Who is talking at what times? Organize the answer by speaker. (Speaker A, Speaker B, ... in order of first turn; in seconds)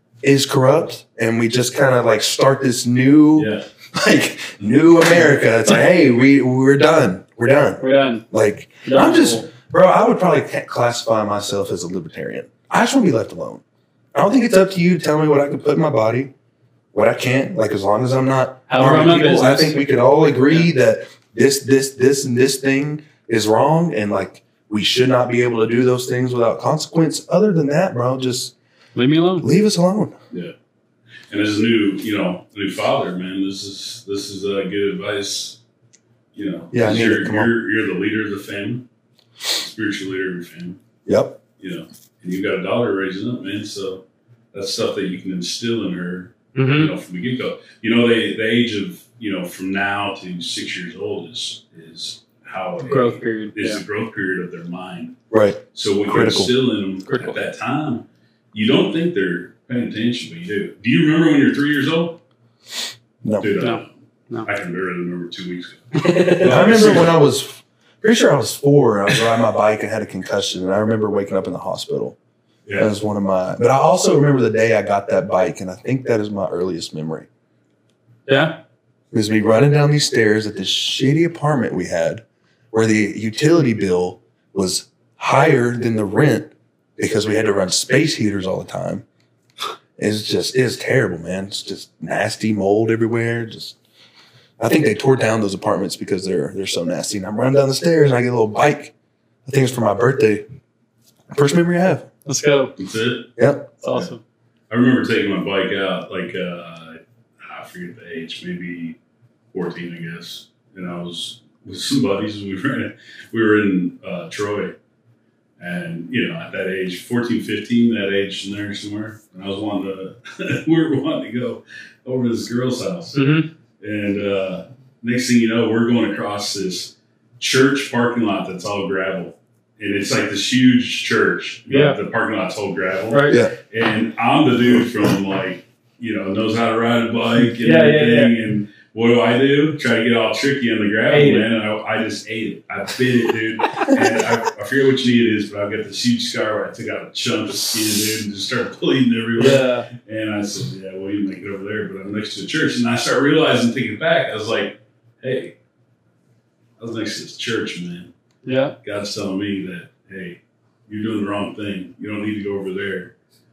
Speaker A: 0.2-13.6, 14.1-16.3, 16.9-28.5, 29.4-30.1, 36.7-37.5, 41.0-41.4, 55.3-56.5, 63.2-63.5, 66.4-72.2, 72.8-77.3, 79.1-89.0, 90.0-93.8, 94.6-98.9, 99.5-100.4, 101.3-102.1, 103.4-103.7, 133.3-133.5
Speaker B: 3.4-3.6, 31.3-35.6, 36.3-38.8, 39.5-40.8, 41.6-44.0, 44.5-55.1, 55.7-62.2, 63.4-63.9, 64.4-67.2, 72.6-72.9, 102.8-103.3, 104.7-109.0, 109.5-114.7, 115.6-155.5, 156.8-158.1, 158.8-163.1
Speaker C: 7.8-8.2, 8.8-9.5, 18.7-19.7, 28.9-29.5, 46.5-46.9, 52.8-53.8, 57.1-57.4, 63.6-64.5, 65.9-66.5, 78.3-78.6, 102.2-102.7, 103.8-104.2, 123.1-123.5, 131.7-131.9, 133.1-133.4, 137.6-138.3, 141.1-141.5, 149.4-149.9, 158.4-158.7